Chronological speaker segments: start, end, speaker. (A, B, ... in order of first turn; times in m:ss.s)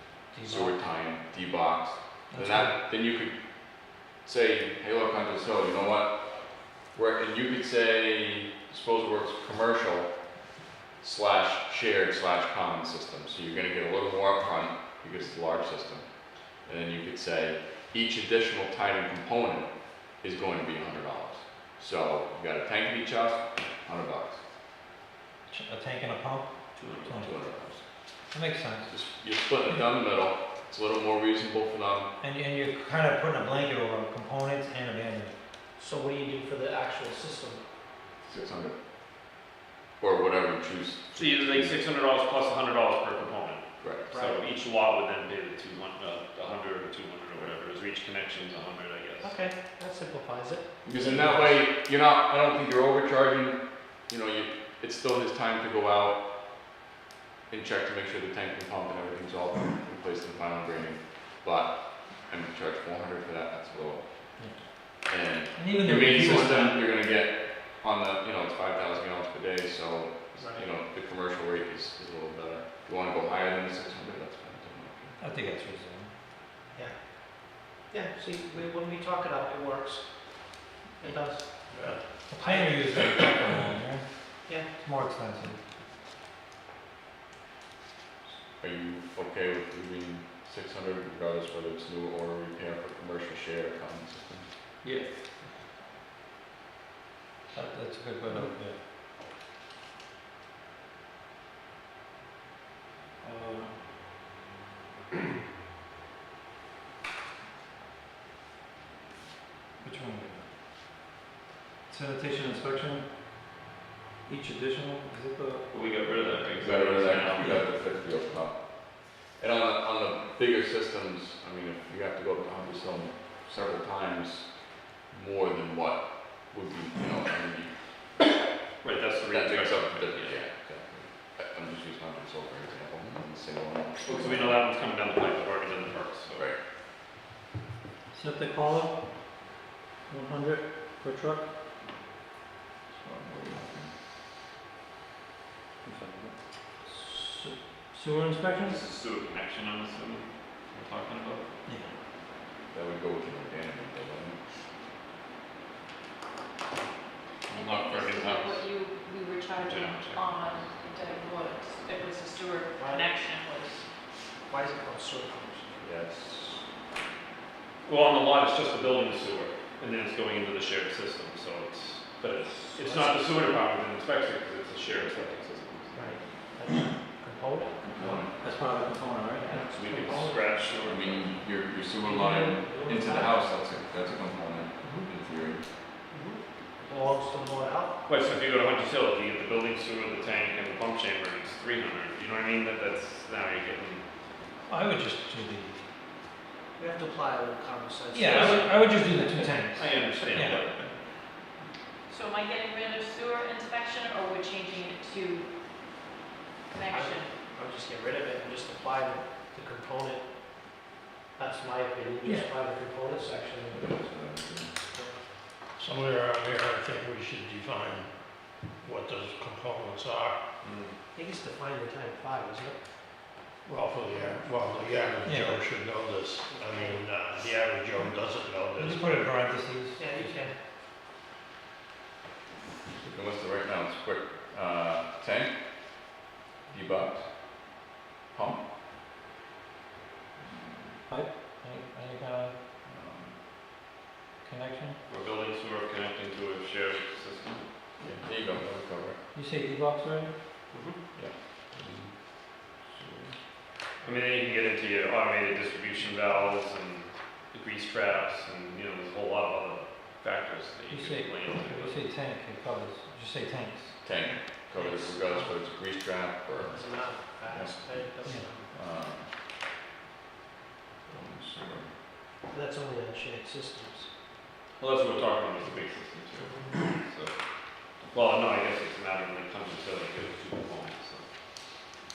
0:00.3-0:00.8 A
0:00.5-0:03.3 B
0:02.3-0:02.7 C
0:04.0-0:10.1 B
0:11.0-0:16.1 B
0:16.6-0:24.4 B
0:25.5-0:27.4 C
0:26.8-0:27.3 D
0:27.2-0:27.8 B
0:28.3-0:28.9 C
0:28.9-0:32.1 B
0:32.2-0:35.3 C
0:35.8-0:37.6 A
0:38.2-0:38.8 B
0:40.0-0:41.8 B
0:41.1-0:49.4 D
0:43.8-0:44.1 B
0:44.1-0:44.4 A
0:49.2-0:51.5 A
0:50.8-0:56.2 B
0:57.5-1:04.3 B
1:05.1-1:15.2 B
1:05.6-1:06.8 C
1:10.4-1:10.7 A
1:15.2-1:16.1 C
1:16.7-1:23.1 A
1:21.7-1:22.0 E
1:22.3-1:25.6 C
1:28.6-1:34.5 B
1:34.8-1:35.2 D
1:37.5-1:38.8 C
1:43.2-1:43.7 C
1:49.8-1:50.4 C
1:51.9-1:53.1 C
1:54.3-1:55.7 C
1:55.7-1:57.6 D
1:56.6-2:04.5 B
2:05.0-2:07.7 B
2:08.8-2:10.4 D
2:09.3-2:14.6 B
2:14.0-2:16.5 D
2:18.1-2:19.0 C
2:20.1-2:21.5 C
2:23.0-2:23.9 B
2:25.8-2:26.3 C
2:26.8-2:28.8 C
2:28.6-2:31.4 D
2:31.7-2:31.9 C
2:32.7-2:34.4 B
2:37.5-2:38.7 D
2:37.5-2:43.8 F
2:39.6-2:40.7 D
2:42.8-2:43.0 A
2:44.5-2:45.9 A
2:45.8-2:46.6 B
2:47.8-2:56.2 D
2:52.7-2:53.2 A
2:55.9-2:58.2 A
2:57.8-2:58.3 B
2:58.4-3:00.0 C
2:59.4-3:00.4 A
2:59.5-3:01.3 D
3:00.8-3:05.6 B
3:02.0-3:03.4 A
3:06.1-3:08.0 A
3:08.1-3:14.0 D
3:14.7-3:15.9 C
3:16.8-3:19.1 A
3:18.1-3:20.6 C
3:18.3-3:20.8 D
3:22.1-3:25.5 F
3:26.7-3:27.3 F
3:26.9-3:30.3 A
3:31.4-3:33.9 A
3:33.7-3:34.7 B
3:34.9-3:35.2 A
3:35.8-3:38.1 E
3:38.8-3:40.4 E
3:40.6-3:40.9 D
3:41.1-3:42.8 A
3:43.6-3:49.1 E
3:45.2-3:45.6 C
3:46.5-3:47.0 A
3:48.8-3:50.5 C
3:50.0-3:50.5 A
3:53.0-3:55.5 B
3:56.7-3:57.8 B
3:58.3-3:58.6 B
4:01.1-4:02.5 C
4:02.8-4:03.4 B
4:04.4-4:05.0 C
4:05.1-4:07.7 D
4:08.0-4:09.2 B
4:09.3-4:10.3 C
4:10.7-4:11.0 D
4:11.1-4:11.9 B
4:14.0-4:22.0 D
4:20.9-4:24.0 C
4:24.0-4:29.3 B
4:24.8-4:25.5 A
4:26.5-4:28.7 A
4:28.2-4:28.5 C
4:31.1-4:31.9 B
4:32.5-4:34.1 A
4:34.8-4:41.2 D